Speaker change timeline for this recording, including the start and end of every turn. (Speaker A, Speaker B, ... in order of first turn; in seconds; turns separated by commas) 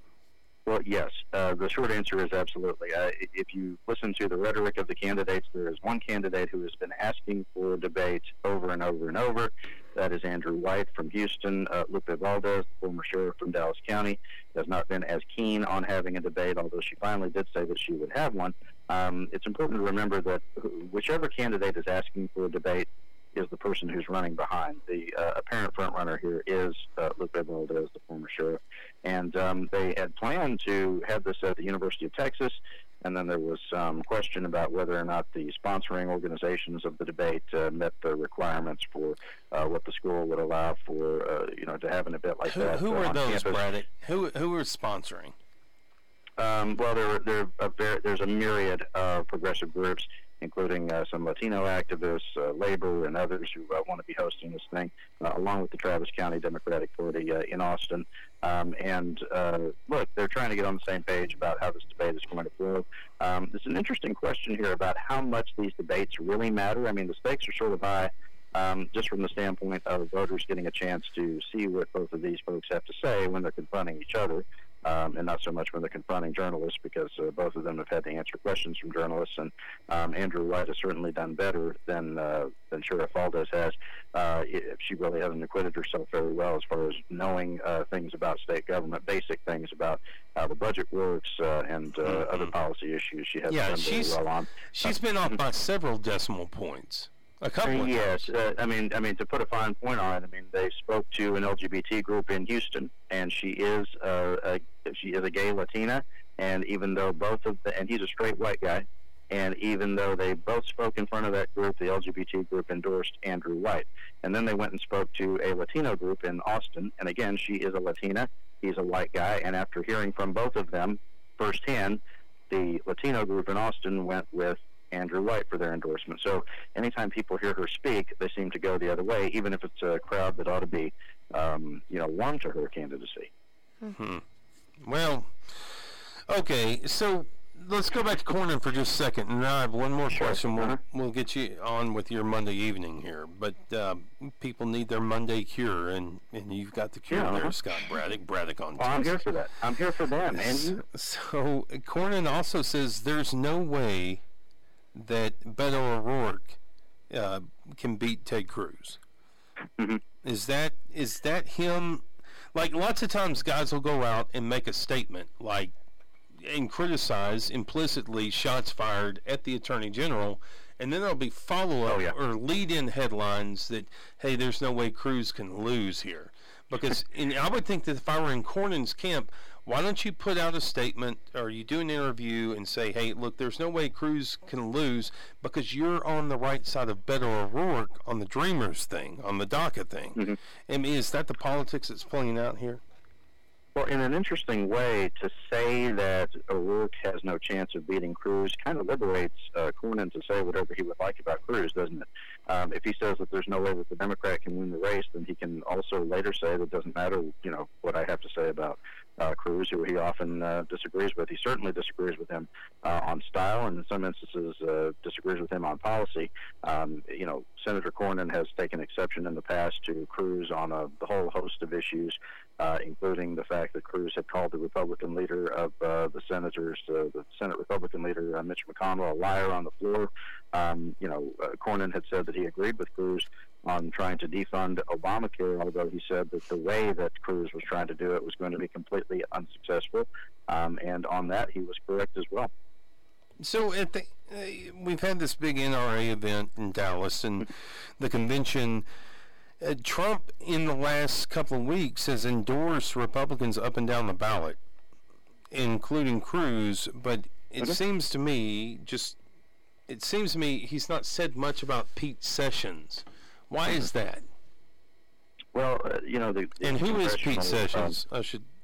Speaker A: 0.7-43.6, Speaker B: 42.4-45.3, Speaker A: 46.4-94.6, Speaker B: 93.5-94.2, Speaker B: 94.7-98.2, Speaker A: 97.6-133.3, Speaker B: 133.9-134.2, Speaker B: 134.8-149.2, Speaker A: 140.1-140.8, Speaker A: 147.1-147.5, Speaker A: 148.8-150.8, Speaker B: 150.3-154.2, Speaker B: 154.9-156.6, Speaker B: 157.1-159.0, Speaker B: 160.2-165.7, Speaker B: 166.3-192.8, Speaker A: 171.9-172.1, Speaker A: 193.7-242.5, Speaker B: 243.4-248.8, Speaker B: 249.6-254.6, Speaker B: 255.5-259.2, Speaker B: 259.9-264.2, Speaker A: 265.5-267.9, Speaker B: 266.6-268.4